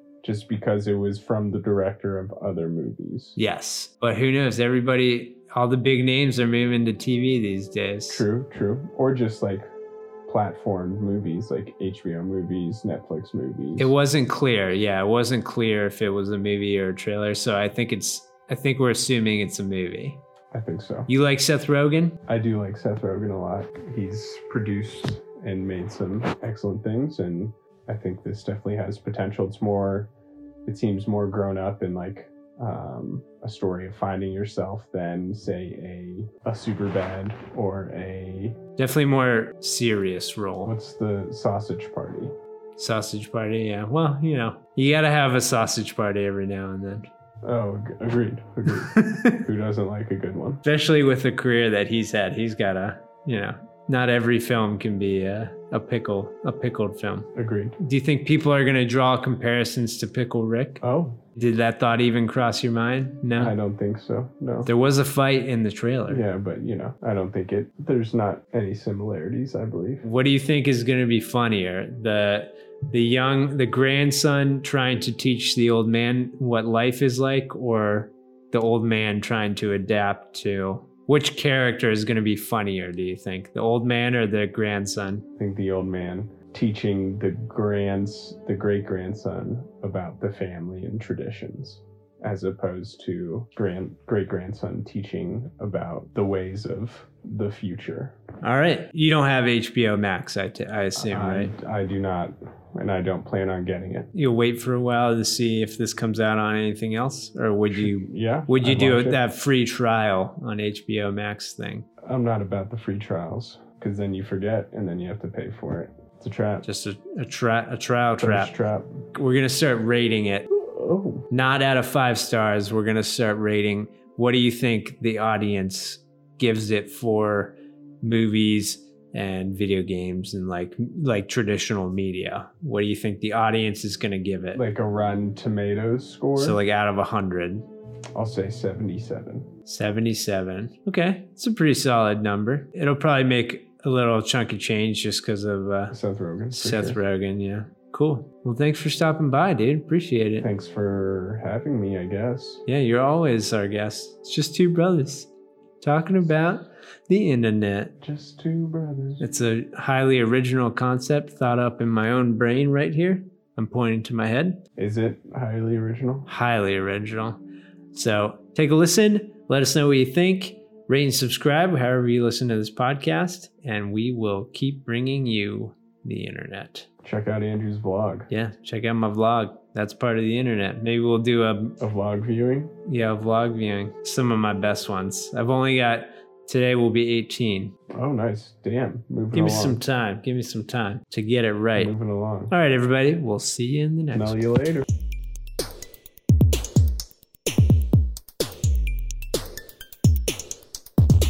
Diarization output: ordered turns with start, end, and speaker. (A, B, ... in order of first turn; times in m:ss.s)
0:00.2-0:03.4 A
0:03.4-0:08.2 B
0:08.1-0:09.6 A
0:10.3-0:13.9 A
0:13.8-0:20.2 B
0:20.5-0:21.1 A
0:21.1-0:22.2 B
0:22.3-0:30.1 A
0:30.6-0:38.6 A
0:38.8-0:40.7 B
0:40.6-0:42.3 A
0:42.8-0:47.1 B
0:47.4-0:50.6 A
0:48.7-0:49.4 B
0:50.6-1:00.8 B
0:57.3-0:57.8 A
1:00.8-1:01.2 A
1:01.3-1:03.5 B
1:03.4-1:04.7 A
1:04.6-1:06.2 B
1:06.1-1:10.0 A
1:10.0-1:25.2 B
1:25.4-1:38.2 A
1:38.4-1:41.5 B
1:41.0-1:44.1 A
1:44.1-1:51.9 B
1:47.7-1:49.2 A
1:52.0-1:56.6 A
1:56.6-1:58.5 B
1:58.2-1:59.0 A
1:59.1-2:00.5 B
2:00.6-2:01.3 A
2:01.3-2:14.6 B
2:14.5-2:16.6 A
2:16.4-2:17.6 B
2:18.1-2:19.5 A
2:19.6-2:25.9 B
2:25.9-2:27.0 A
2:26.5-2:30.5 B
2:30.4-2:32.6 A
2:32.6-2:35.3 B
2:35.8-2:37.9 B
2:38.0-2:39.2 A
2:39.2-2:44.6 B
2:44.8-2:46.3 A
2:46.2-2:47.4 B
2:47.9-2:56.9 B
2:57.0-2:58.3 A
2:58.3-3:01.8 B
3:01.8-3:02.7 A
3:02.8-3:07.7 B
3:07.9-3:09.8 A
3:09.3-3:11.9 B
3:11.7-3:12.5 A
3:12.5-3:14.4 B
3:14.1-3:14.8 A